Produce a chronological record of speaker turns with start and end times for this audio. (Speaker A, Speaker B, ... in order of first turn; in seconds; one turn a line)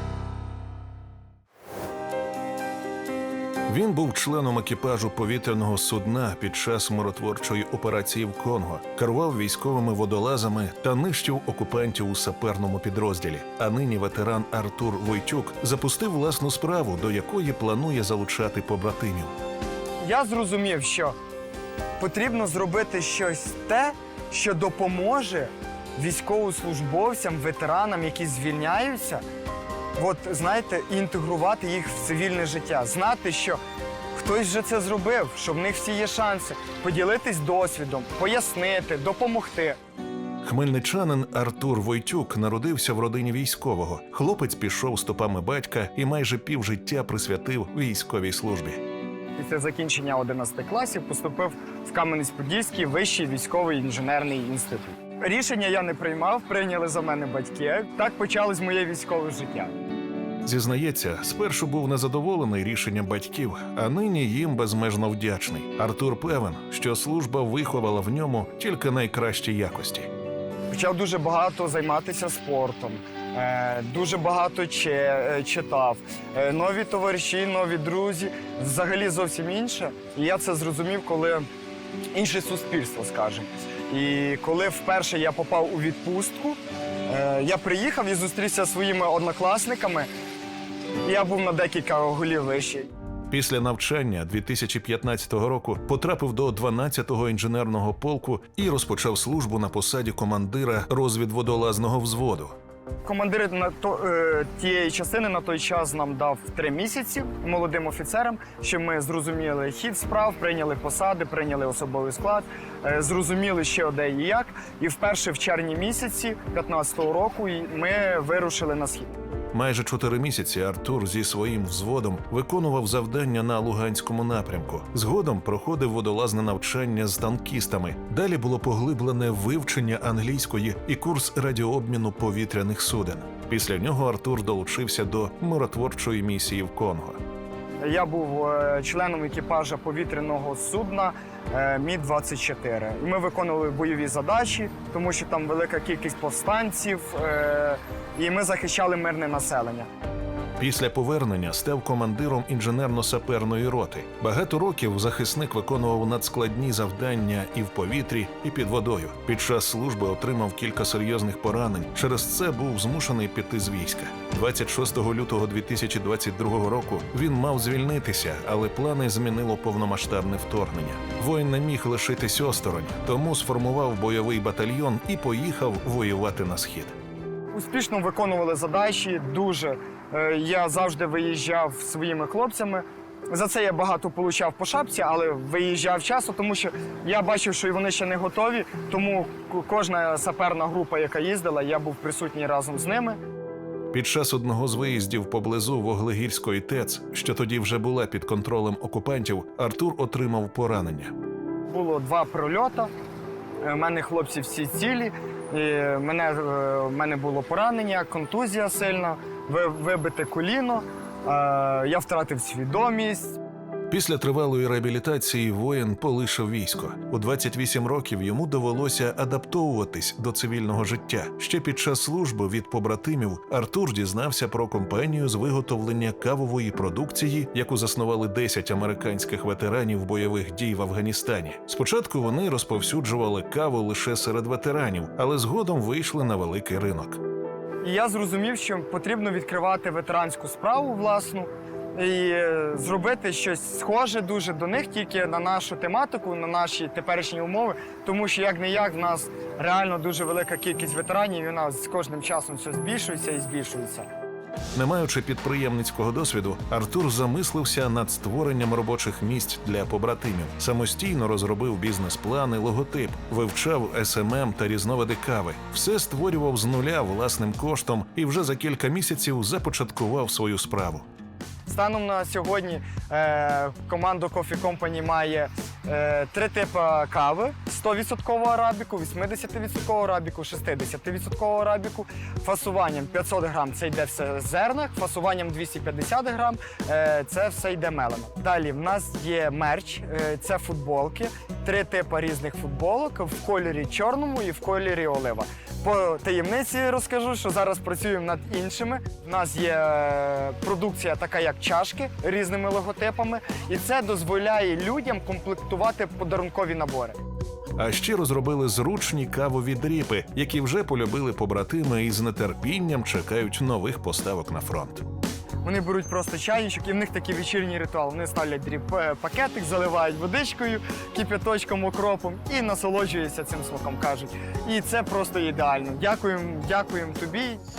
Speaker A: 3.7-19.3
Speaker B: 20.0-21.2
Speaker B: 22.0-29.2
Speaker B: 30.0-33.6
Speaker B: 34.1-39.8
Speaker A: 40.4-48.8
Speaker B: 49.4-59.7
Speaker A: 60.4-70.1
Speaker B: 70.7-81.5
Speaker B: 82.1-90.1
Speaker B: 91.0-92.9
Speaker A: 93.3-102.5
Speaker B: 103.0-119.2
Speaker A: 119.5-137.2
Speaker B: 137.8-149.9
Speaker A: 150.6-176.9
Speaker B: 177.5-193.2
Speaker A: 193.9-201.1
Speaker B: 201.7-202.9
Speaker B: 203.6-213.4
Speaker A: 213.9-237.2
Speaker B: 237.8-254.1
Speaker A: 254.8-271.1
Speaker B: 271.7-307.2
Speaker A: 307.8-315.0
Speaker B: 315.6-327.6